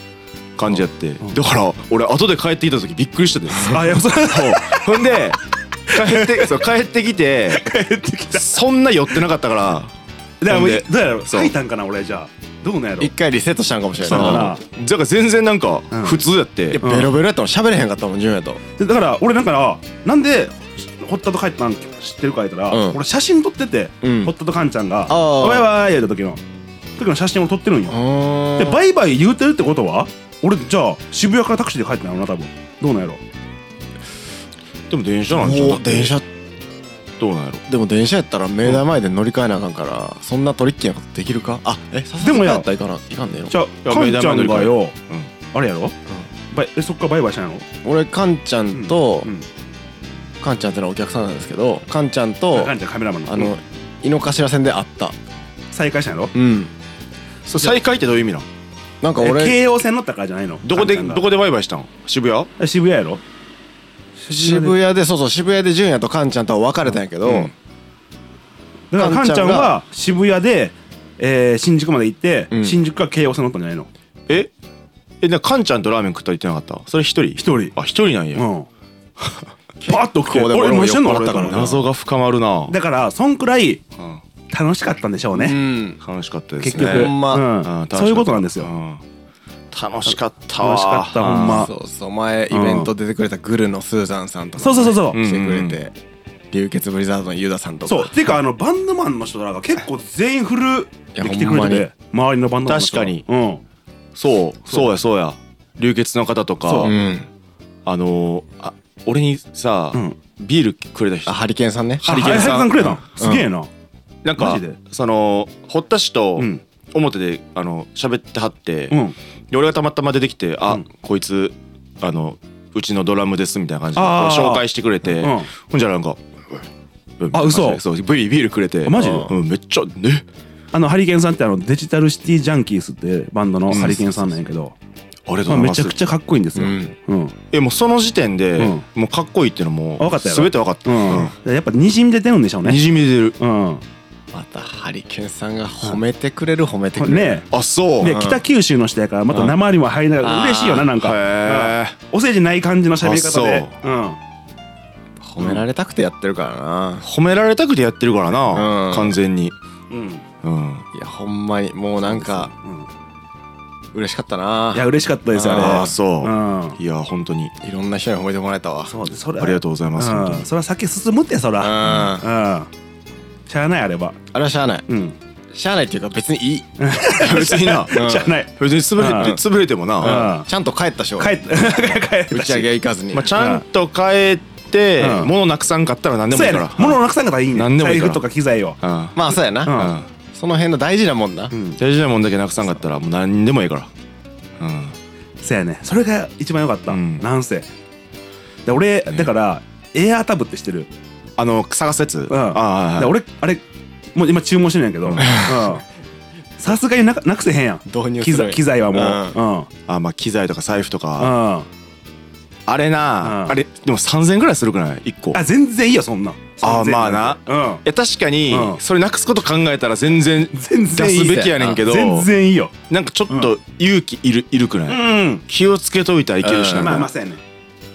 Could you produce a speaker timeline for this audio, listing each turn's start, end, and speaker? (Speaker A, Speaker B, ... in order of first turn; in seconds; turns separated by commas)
Speaker A: 0.6-7.6, Speaker B: 3.6-5.2, Speaker B: 5.9-6.6, Speaker B: 7.5-8.6, Speaker A: 8.3-9.9, Speaker B: 10.4-13.1, Speaker A: 10.5-11.5, Speaker C: 13.0-14.5, Speaker B: 14.0-14.6, Speaker A: 14.0-16.8, Speaker B: 15.9-16.2, Speaker C: 16.7-18.6, Speaker B: 16.8-17.1, Speaker B: 18.8-26.4, Speaker C: 22.7-23.0, Speaker C: 24.0-24.3, Speaker C: 25.1-25.7, Speaker B: 27.0-28.0, Speaker C: 27.9-28.8, Speaker B: 28.6-33.2, Speaker A: 34.9-36.1, Speaker C: 35.3-36.2, Speaker A: 37.2-37.6, Speaker C: 37.7-43.5, Speaker B: 42.2-42.6, Speaker B: 43.5-44.9, Speaker A: 43.8-45.3, Speaker B: 45.5-45.9, Speaker B: 46.5-47.6, Speaker C: 47.8-49.3, Speaker B: 48.7-49.5, Speaker C: 50.4-52.7, Speaker B: 52.5-53.5, Speaker C: 53.2-55.1, Speaker B: 55.7-56.3, Speaker C: 56.3-56.7, Speaker A: 57.5-58.5, Speaker B: 57.5-57.8, Speaker C: 59.0-59.6, Speaker B: 59.2-61.2, Speaker A: 60.6-62.5, Speaker B: 62.6-63.2, Speaker B: 64.2-64.8, Speaker C: 64.3-67.5, Speaker A: 67.2-67.5, Speaker B: 68.9-73.9, Speaker C: 68.9-69.8, Speaker C: 72.5-72.8, Speaker A: 75.2-78.5, Speaker B: 77.4-77.7, Speaker B: 78.3-78.7, Speaker C: 79.8-81.8, Speaker B: 79.8-81.7, Speaker A: 81.3-82.7, Speaker B: 82.7-83.8, Speaker B: 84.5-85.6, Speaker C: 85.3-86.0, Speaker A: 86.0-89.0, Speaker B: 86.6-88.7, Speaker C: 86.7-87.5, Speaker A: 89.7-91.7, Speaker B: 90.1-91.7, Speaker C: 91.2-95.9, Speaker B: 92.5-92.9, Speaker B: 94.6-95.2, Speaker A: 95.1-95.8, Speaker C: 96.5-98.3, Speaker B: 97.8-103.6, Speaker C: 101.1-101.9, Speaker A: 102.7-103.2, Speaker A: 104.2-106.9, Speaker B: 106.7-106.9, Speaker C: 106.8-107.3, Speaker A: 107.8-111.4, Speaker C: 111.2-112.6, Speaker A: 112.0-113.0, Speaker B: 112.0-113.7, Speaker C: 113.2-113.5, Speaker A: 114.2-119.0, Speaker B: 114.4-114.8, Speaker B: 118.9-119.2, Speaker A: 119.5-126.2, Speaker B: 124.0-124.7, Speaker B: 125.2-125.5, Speaker A: 127.2-130.2, Speaker B: 127.3-127.8, Speaker B: 128.8-129.3, Speaker C: 128.9-129.3, Speaker B: 130.7-134.7, Speaker A: 133.7-134.1, Speaker A: 135.3-135.9, Speaker B: 135.5-137.3, Speaker C: 136.6-136.9, Speaker A: 137.5-141.3, Speaker B: 138.6-138.8, Speaker B: 140.0-142.8, Speaker A: 142.6-143.3, Speaker B: 143.4-143.8, Speaker C: 144.3-147.4, Speaker B: 147.0-147.5, Speaker A: 147.5-148.2, Speaker B: 148.0-154.2, Speaker C: 148.0-148.4, Speaker C: 150.2-150.9, Speaker A: 151.0-151.9, Speaker A: 153.0-153.7, Speaker C: 155.2-157.0, Speaker A: 157.0-159.5, Speaker C: 158.5-159.2, Speaker B: 159.9-160.2, Speaker A: 160.4-160.8, Speaker C: 160.9-162.5, Speaker B: 162.6-162.9, Speaker C: 163.9-165.9, Speaker B: 164.7-166.8, Speaker A: 165.5-167.5, Speaker C: 167.6-168.9, Speaker B: 168.9-172.7, Speaker A: 169.4-170.5, Speaker C: 171.6-172.3, Speaker A: 171.8-172.1, Speaker B: 173.5-174.2, Speaker C: 174.3-174.8, Speaker B: 174.9-175.2, Speaker C: 175.5-176.7, Speaker B: 176.8-179.4, Speaker A: 177.2-178.0, Speaker C: 177.2-178.4, Speaker A: 178.6-180.2, Speaker C: 179.1-179.4, Speaker C: 180.0-183.3, Speaker B: 180.0-180.5, Speaker B: 181.2-182.7, Speaker A: 183.1-187.0, Speaker B: 183.3-183.6, Speaker B: 185.0-185.3, Speaker B: 186.3-188.8, Speaker A: 187.5-188.2, Speaker A: 188.8-189.2, Speaker C: 189.1-189.8, Speaker B: 189.7-189.9, Speaker A: 189.7-190.1, Speaker C: 190.3-191.5, Speaker B: 191.5-191.8, Speaker A: 191.8-193.9, Speaker A: 194.6-194.9, Speaker B: 195.4-197.7, Speaker A: 196.9-197.2, Speaker B: 198.7-200.9, Speaker A: 201.4-203.1, Speaker B: 202.3-203.6, Speaker B: 204.1-205.8, Speaker A: 205.0-205.4, Speaker B: 206.6-209.7, Speaker C: 207.8-209.4, Speaker A: 209.9-211.3, Speaker B: 211.2-211.7, Speaker A: 212.7-215.4, Speaker B: 213.2-213.6, Speaker B: 215.3-217.8, Speaker A: 216.6-222.3, Speaker B: 218.5-218.8, Speaker B: 220.5-222.7, Speaker C: 221.1-221.8, Speaker A: 222.9-227.1, Speaker B: 224.9-225.4, Speaker C: 226.4-227.1, Speaker B: 226.7-227.4